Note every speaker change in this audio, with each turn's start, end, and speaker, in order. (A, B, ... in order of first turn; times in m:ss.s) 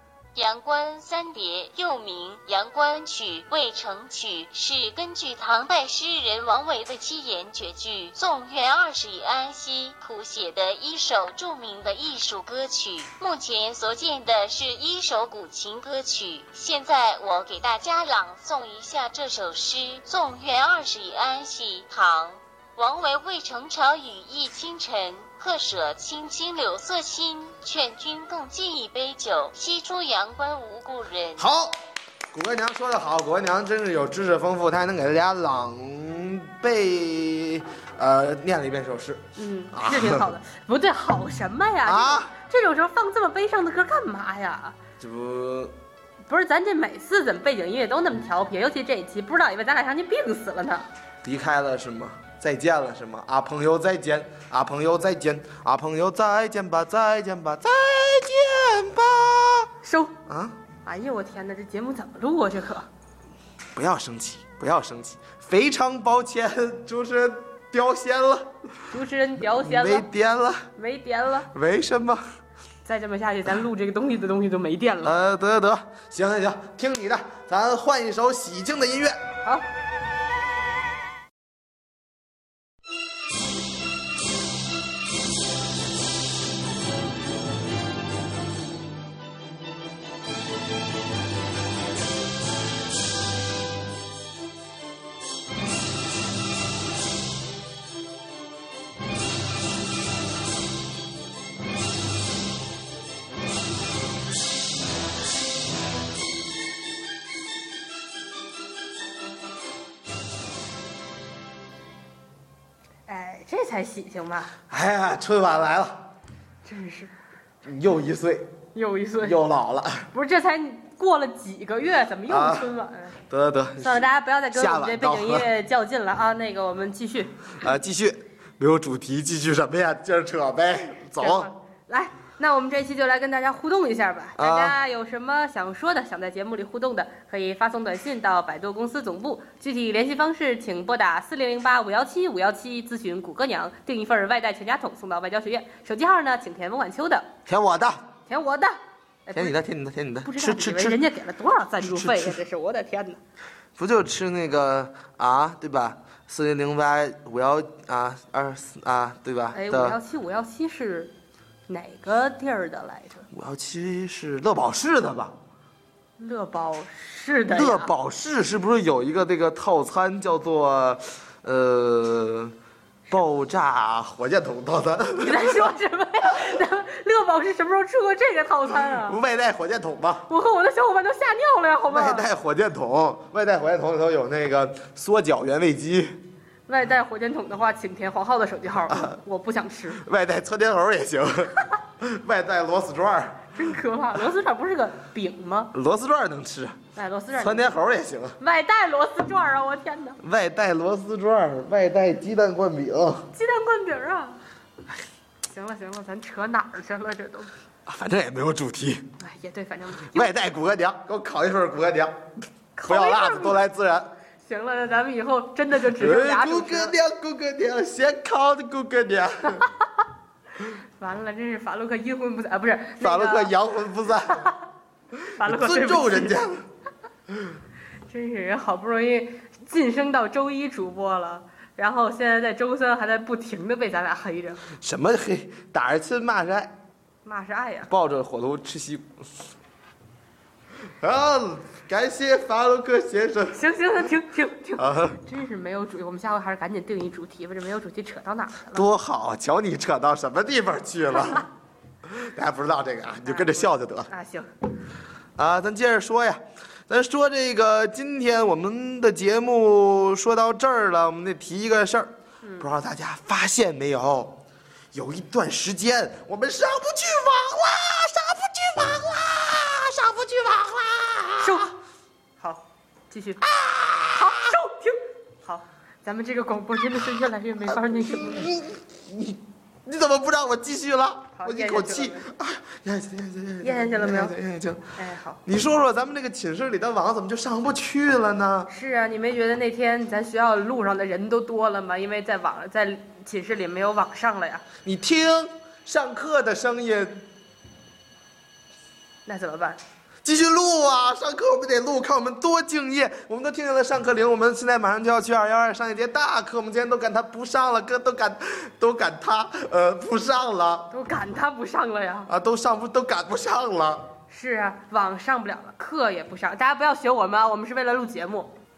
0:00.3-0:31.4 A
0:31.4-0:31.8 B
0:32.3-0:40.3 B
0:39.4-0:44.8 C
0:41.8-0:42.3 B
0:45.0-0:45.7 B
0:46.3-0:50.9 C
0:51.2-0:59.7 B
0:59.8-1:00.1 C
1:00.3-1:00.6 B
1:00.8-1:02.9 C
1:03.7-1:08.5 B
1:08.9-1:10.1 C
1:09.5-1:10.7 B
1:10.8-1:11.5 C
1:11.5-1:12.2 B
1:12.8-1:15.1 C
1:15.0-1:19.2 B
1:53.1-1:54.5 C
1:54.7-1:56.0 B
1:56.6-1:57.1 C
1:57.6-1:58.5 B
1:58.7-1:59.4 C
1:59.2-2:00.1 B
2:00.1-2:03.2 C
2:02.3-2:02.7 B
2:03.3-2:05.5 B
2:03.8-2:07.3 C
2:07.6-2:11.5 B
2:11.2-2:27.3 C
2:14.4-2:14.8 B
2:27.4-2:28.0 B
2:28.3-2:29.6 C
2:29.3-2:31.0 B
2:30.2-2:33.2 C
2:31.8-2:32.4 B
2:33.8-2:40.0 B
2:39.5-2:41.1 C
2:41.7-2:43.2 C
2:43.3-2:45.3 B
2:46.2-2:47.9 C
2:47.5-2:52.5 B
2:53.1-2:55.6 B
2:55.2-2:59.2 C
2:58.7-3:00.3 B
3:00.3-3:02.3 C
3:01.9-3:06.2 B
3:06.7-3:10.0 C
3:08.9-3:09.2 B
3:09.9-3:13.6 B
3:13.5-3:15.7 C
3:15.7-3:16.8 B
3:16.9-3:17.7 C
3:17.3-3:18.4 B
3:18.4-3:20.2 C
3:20.2-3:23.3 B
3:23.3-3:24.4 C
3:25.4-3:27.5 C
3:27.8-3:29.0 B
3:29.2-3:30.3 C
3:30.0-3:32.2 B
3:32.7-3:33.6 C
3:32.9-3:34.1 B
3:34.4-3:36.9 C
3:35.9-3:39.7 B
3:41.0-3:43.5 C
3:43.0-3:44.5 B
3:45.3-3:46.4 C
3:45.4-3:46.6 B
3:48.1-3:54.6 C
3:54.8-3:56.7 B
3:57.2-3:57.9 C
3:57.9-3:59.1 B
4:01.0-4:03.6 B
4:03.5-4:08.8 C
4:04.8-4:05.2 B
4:08.7-4:11.5 B
4:12.1-4:14.1 B
4:13.2-4:14.5 C
4:15.4-4:24.4 B
4:24.9-4:31.7 B
4:31.4-4:31.7 C
4:32.4-4:33.4 C
4:33.4-4:34.5 B
4:34.0-4:38.5 C
4:37.7-4:44.9 B
4:41.4-4:42.3 C
4:43.6-4:44.3 C
4:45.0-4:45.4 C
4:45.4-4:48.7 B
4:48.7-4:54.6 C
4:54.8-4:57.2 B
4:59.2-4:59.8 C
5:00.2-5:10.9 B
5:10.9-5:12.3 C
5:12.3-5:14.1 B
5:14.3-5:18.5 C